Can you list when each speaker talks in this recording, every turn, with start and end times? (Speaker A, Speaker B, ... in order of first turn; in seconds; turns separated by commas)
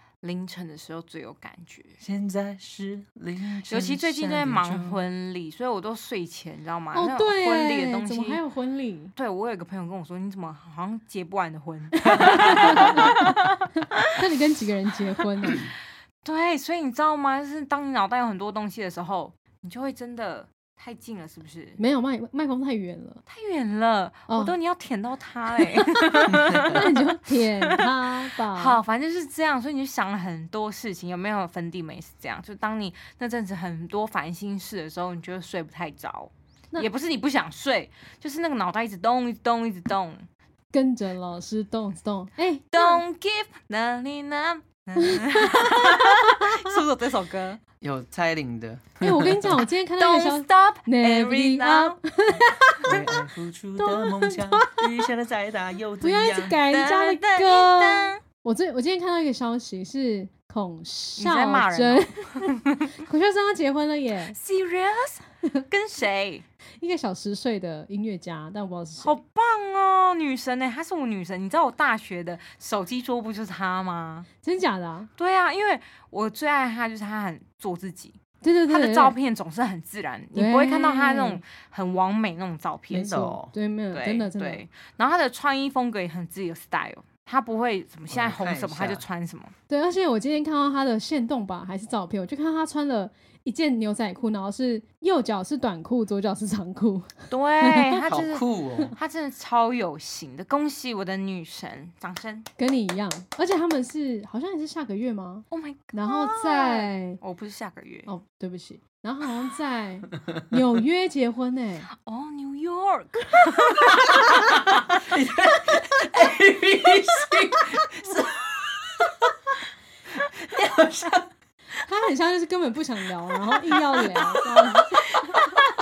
Speaker A: 0.2-2.0, Speaker B: 2.0-5.0, Speaker A: 3.7-8.4, Speaker C: 6.9-9.1, Speaker A: 9.2-14.2, Speaker C: 11.9-13.3, Speaker B: 12.1-13.1, Speaker C: 13.8-15.7, Speaker A: 15.2-15.7, Speaker A: 16.2-21.8, Speaker C: 21.8-23.2, Speaker A: 23.3-27.9, Speaker C: 24.3-24.5, Speaker C: 25.8-28.8, Speaker B: 26.3-26.9, Speaker A: 28.5-40.3, Speaker C: 40.7-43.0, Speaker A: 42.7-47.6, Speaker C: 45.0-46.7, Speaker B: 47.8-49.6, Speaker C: 49.0-53.1, Speaker A: 50.0-52.0, Speaker B: 52.8-56.6, Speaker C: 53.8-54.8, Speaker C: 56.0-64.4, Speaker A: 56.6-58.2, Speaker A: 61.2-63.0, Speaker A: 64.3-66.5, Speaker C: 66.8-69.2, Speaker A: 69.0-74.3, Speaker C: 74.4-75.1, Speaker A: 75.2-78.2, Speaker C: 78.4-79.1, Speaker A: 78.7-83.2, Speaker C: 80.3-81.4, Speaker B: 82.9-83.5, Speaker C: 82.9-84.6, Speaker A: 83.9-89.5, Speaker B: 88.1-89.0, Speaker C: 89.7-98.0, Speaker A: 97.3-102.5, Speaker B: 98.0-99.0, Speaker C: 102.6-107.2, Speaker A: 105.5-108.1, Speaker C: 108.1-111.9, Speaker A: 111.9-114.8, Speaker B: 114.3-119.3, Speaker B: 120.1-121.3, Speaker C: 121.8-125.0